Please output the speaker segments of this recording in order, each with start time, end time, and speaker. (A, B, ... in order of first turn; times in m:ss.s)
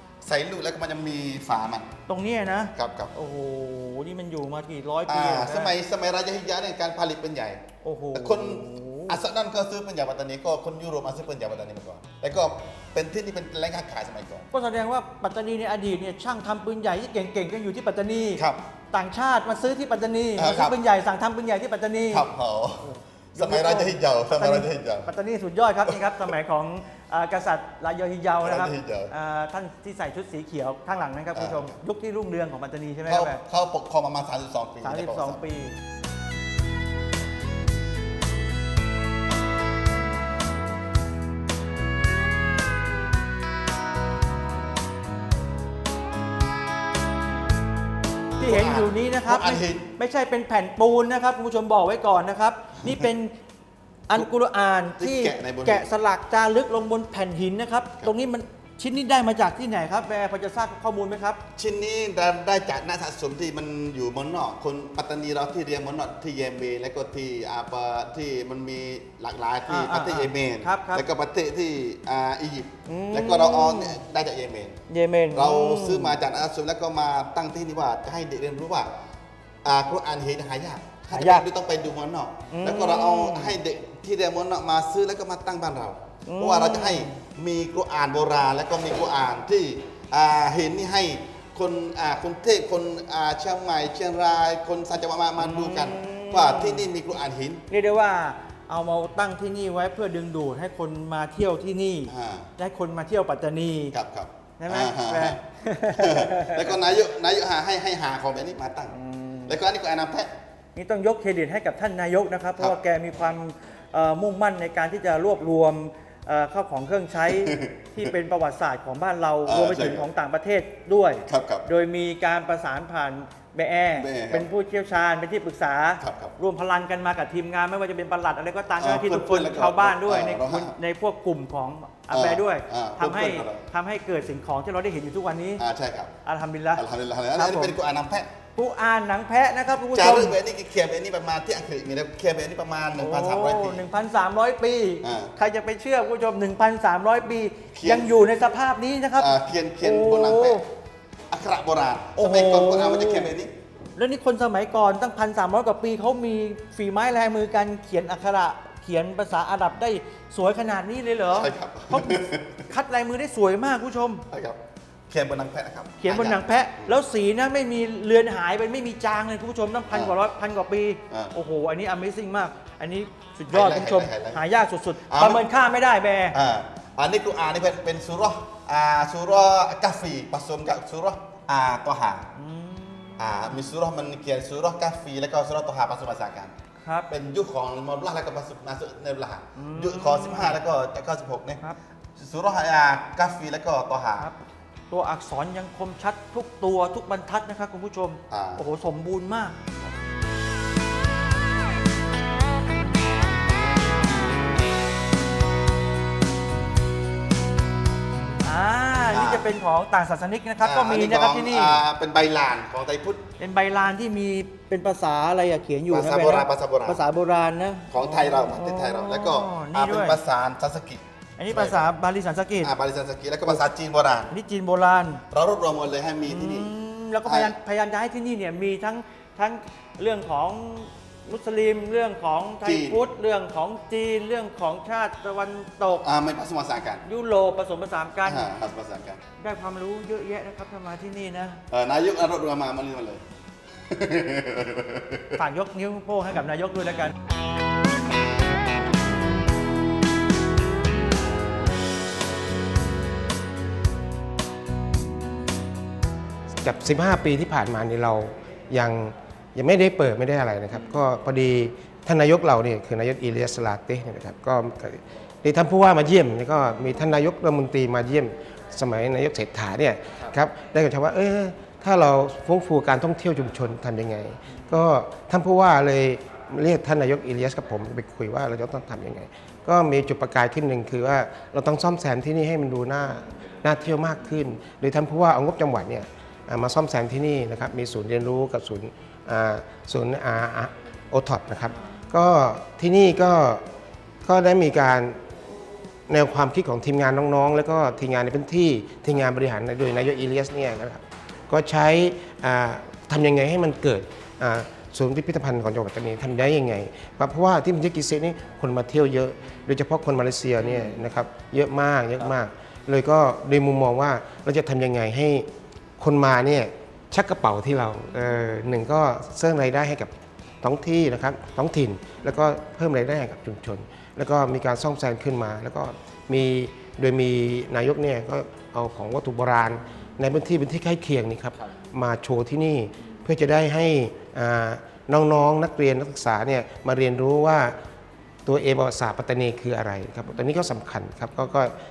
0:00.2-0:02.0 A
0:02.1-0:05.7 B
0:02.7-0:03.1 A
0:05.1-0:07.6 A
0:07.8-0:09.2 B
0:08.1-0:14.5 A
0:14.5-0:22.3 B
0:20.4-0:20.8 A
0:22.1-0:25.1 A
0:22.8-0:33.4 B
0:28.4-0:29.1 A
0:31.4-0:31.7 A
0:33.1-0:35.4 A
0:34.8-0:35.8 B
0:48.4-0:53.3 B
0:48.4-0:49.9 A
0:54.1-1:01.4 B
0:55.0-0:55.8 A
1:01.6-1:14.8 A
1:09.7-1:11.0 B
1:12.9-1:14.0 B
1:14.9-1:16.1 B
1:15.3-1:18.9 A
1:19.6-1:37.6 A
1:21.1-1:21.4 B
1:22.5-1:23.6 B
1:26.2-1:27.2 B
1:35.4-1:36.8 B
1:37.7-1:43.9 B
1:42.1-1:42.5 A
1:43.9-1:45.4 A
1:44.6-1:46.8 B
1:45.9-1:48.9 A
1:48.9-1:49.6 B
1:49.5-1:50.3 A
1:50.7-2:15.6 B
1:57.3-1:58.1 A
1:59.4-2:00.1 A
2:01.3-2:01.6 A
2:04.0-2:04.5 A
2:06.0-2:06.3 A
2:08.8-2:10.7 A
2:12.1-2:13.6 A
2:15.6-2:16.1 A
2:16.2-2:16.8 B
2:16.8-2:18.3 A
2:17.3-2:17.7 B
2:18.6-2:20.4 B
2:19.9-2:23.8 A
2:23.0-2:29.3 B
2:25.0-2:25.3 A
2:27.7-2:28.1 A
2:29.2-2:30.6 A
2:29.8-2:30.6 B
2:31.3-2:33.5 A
2:32.2-2:33.3 B
2:34.0-2:44.2 B
2:41.3-2:42.7 A
2:44.3-2:46.9 A
2:46.0-2:56.4 B
2:53.5-2:54.4 A
2:55.1-2:55.4 A
2:56.3-3:02.3 A
3:02.4-3:03.2 B
3:03.2-3:06.5 A
3:06.8-3:07.1 B
3:07.1-3:11.6 A
3:09.6-3:10.6 B
3:12.2-3:14.3 A
3:14.9-3:19.6 B
3:18.3-3:18.6 A
3:28.4-3:31.8 B
3:29.1-3:29.4 A
3:30.6-3:33.2 A
3:33.4-3:40.2 B
3:35.9-3:37.0 A
3:37.9-3:41.8 A
3:41.4-3:42.7 B
3:42.6-3:44.3 A
3:44.3-3:45.2 B
3:45.3-3:46.7 A
3:46.3-3:56.0 B
3:47.2-3:47.5 A
3:52.6-3:53.0 A
3:56.0-3:57.0 A
3:57.0-3:58.5 B
3:58.2-3:59.2 A
3:59.4-4:01.6 B
4:01.7-4:03.2 A
4:03.8-4:05.4 A
4:05.4-4:07.1 B
4:16.6-4:53.6 C
4:54.2-4:55.2 C
4:56.1-5:15.5 C
5:16.0-5:20.1 C
5:20.6-5:37.7 C
5:38.4-5:41.7 C